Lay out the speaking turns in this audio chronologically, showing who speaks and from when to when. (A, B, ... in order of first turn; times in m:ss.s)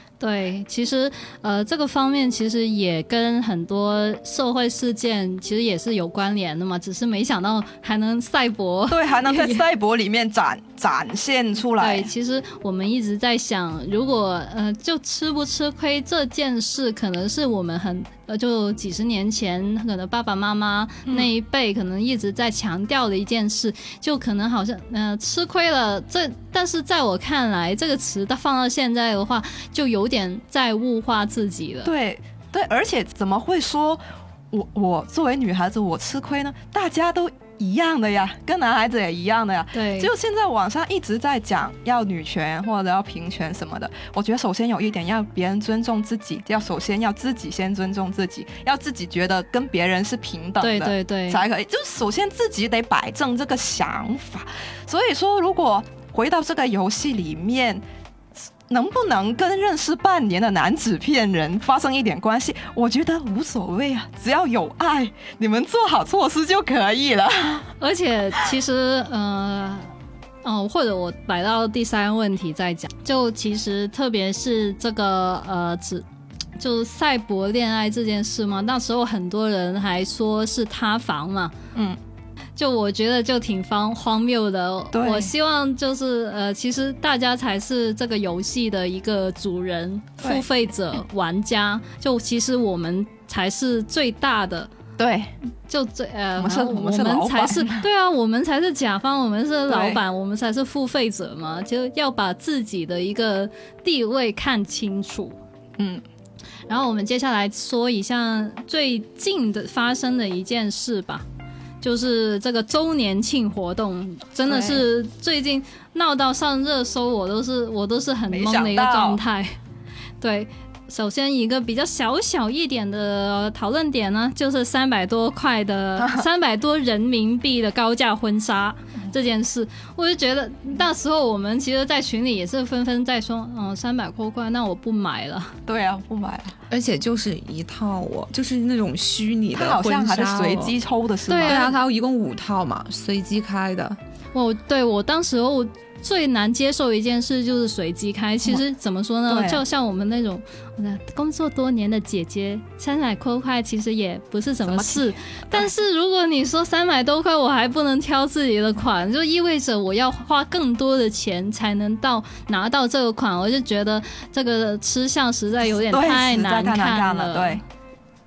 0:00.2-0:09.6 A
0:08.9-0:12.1 B
0:11.8-0:31.9 A
0:31.8-0:57.8 B
0:39.7-0:40.1 A
0:50.6-0:51.4 A
0:58.7-1:07.7 B
1:07.8-1:09.9 A
1:10.4-1:16.0 A
1:16.6-1:21.5 A
1:22.6-1:34.7 A
1:24.9-1:25.3 B
1:35.0-1:35.3 B
1:35.7-1:45.4 A
1:36.4-1:37.8 B
1:39.7-1:40.0 B
1:45.8-1:46.0 B
1:46.7-1:51.2 A
1:51.8-1:59.6 A
1:54.5-1:54.8 B
1:58.3-1:59.2 B
2:00.2-2:15.5 A
2:06.0-2:06.2 B
2:15.7-2:16.6 B
2:16.7-2:20.8 C
2:19.5-2:21.8 B
2:21.3-2:21.6 A
2:21.4-2:24.0 C
2:24.3-2:47.6 A
2:29.3-2:29.6 B
2:34.6-2:35.7 B
2:45.9-2:47.6 B